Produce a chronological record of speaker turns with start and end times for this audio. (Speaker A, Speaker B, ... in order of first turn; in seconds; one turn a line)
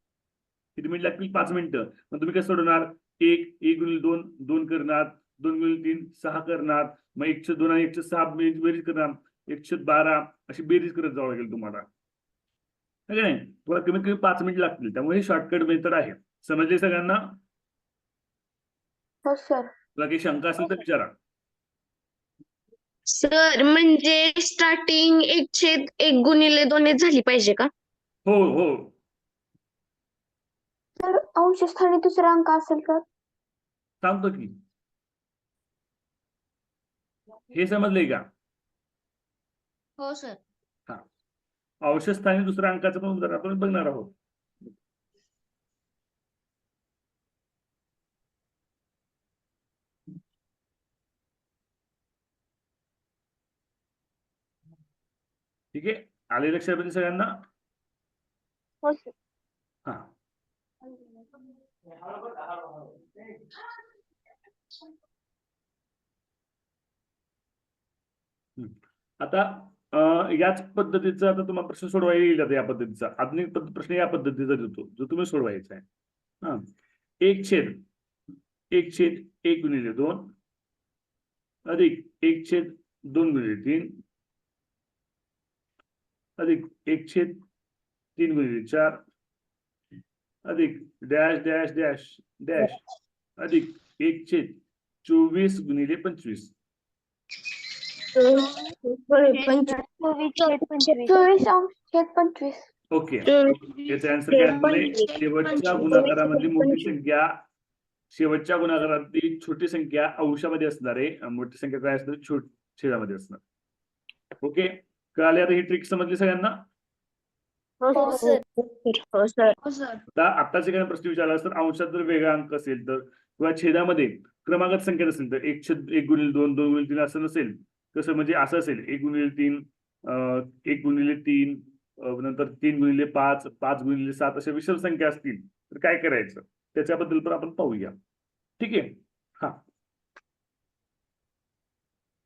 Speaker A: 0.8-11.8
Speaker A: 13.1-17.4
Speaker B: 19.2-19.7
Speaker A: 19.9-21.1
Speaker C: 23.1-27.7
Speaker A: 28.2-28.9
Speaker B: 31.0-33.0
Speaker A: 34.0-34.6
Speaker A: 37.5-38.2
Speaker C: 40.0-40.4
Speaker A: 41.8-44.1
Speaker A: 55.7-57.3
Speaker B: 58.8-59.1
Speaker A: 59.9-60.1
Speaker A: 68.6-75.8
Speaker A: 77.2-77.8
Speaker A: 78.7-80.3
Speaker A: 81.7-84.0
Speaker A: 86.4-87.4
Speaker A: 88.2-89.0
Speaker A: 90.4-92.8
Speaker A: 93.4-96.5
Speaker C: 98.2-99.8
Speaker B: 99.3-102.6
Speaker C: 100.3-101.2
Speaker A: 102.9-107.4
Speaker C: 103.2-106.2
Speaker B: 105.8-106.7
Speaker A: 108.1-113.4
Speaker A: 114.4-116.5
Speaker C: 117.9-118.4
Speaker B: 117.9-118.4
Speaker C: 119.1-119.5
Speaker A: 120.2-137.9
Speaker A: 138.6-139.6